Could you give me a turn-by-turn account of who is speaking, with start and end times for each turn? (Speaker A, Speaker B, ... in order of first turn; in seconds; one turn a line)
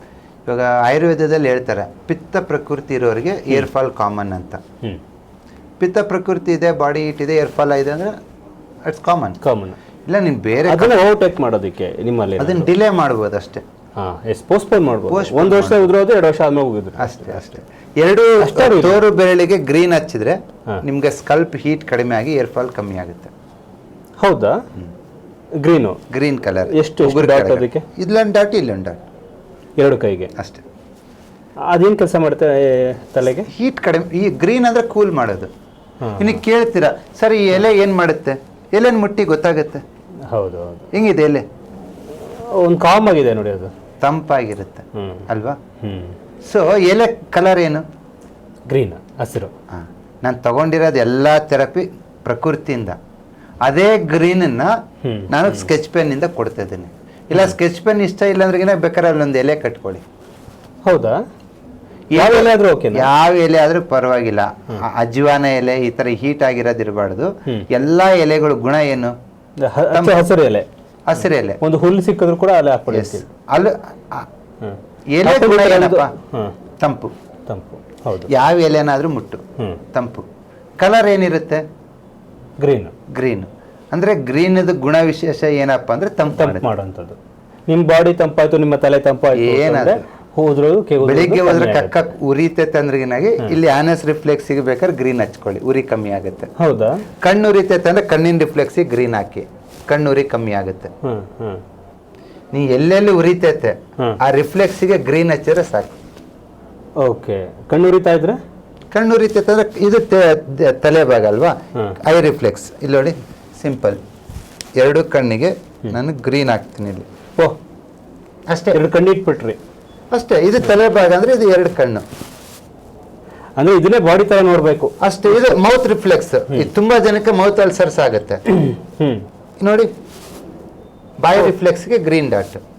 Speaker A: 0.5-4.6
Speaker A: 5.8-8.1
Speaker A: 8.9-9.4
Speaker B: 9.4-9.8
Speaker A: 10.1-11.0
Speaker B: 10.6-12.7
Speaker A: 12.4-13.6
Speaker B: 14.0-17.4
Speaker A: 15.1-15.9
Speaker A: 17.0-23.3
Speaker B: 18.4-19.0
Speaker B: 24.2-24.6
Speaker B: 25.6-26.0
Speaker A: 26.1-29.0
Speaker B: 26.7-27.9
Speaker B: 29.8-30.3
Speaker A: 30.4-30.6
Speaker B: 31.7-33.5
Speaker A: 33.5-35.5
Speaker B: 36.0-36.4
Speaker A: 36.2-39.8
Speaker B: 40.3-40.9
Speaker A: 40.9-41.4
Speaker B: 42.1-43.7
Speaker A: 44.0-45.6
Speaker B: 45.0-45.2
Speaker B: 45.8-46.1
Speaker A: 46.5-47.8
Speaker B: 48.7-49.5
Speaker A: 49.7-53.0
Speaker A: 53.6-54.7
Speaker B: 55.0-55.7
Speaker A: 55.3-60.0
Speaker B: 60.9-61.2
Speaker A: 62.1-69.1
Speaker B: 62.1-63.1
Speaker B: 69.6-70.7
Speaker A: 69.9-70.3
Speaker A: 71.1-71.6
Speaker B: 71.6-73.2
Speaker A: 72.9-74.3
Speaker B: 74.6-76.5
Speaker A: 75.1-76.1
Speaker A: 76.8-77.1
Speaker B: 77.5-78.3
Speaker A: 78.3-79.4
Speaker A: 79.9-80.2
Speaker A: 80.8-81.6
Speaker B: 82.6-82.9
Speaker A: 83.1-86.7
Speaker B: 86.3-92.1
Speaker A: 89.3-90.0
Speaker A: 91.0-96.5
Speaker B: 96.6-97.0
Speaker A: 97.2-100.9
Speaker B: 101.0-101.6
Speaker A: 102.5-106.0
Speaker B: 107.0-108.4
Speaker A: 108.9-114.0
Speaker A: 114.8-117.1
Speaker A: 118.5-118.8
Speaker B: 118.7-119.6
Speaker A: 120.1-122.0
Speaker B: 123.6-124.9
Speaker A: 125.0-128.4
Speaker B: 128.5-129.3
Speaker A: 129.6-129.9
Speaker A: 131.2-132.6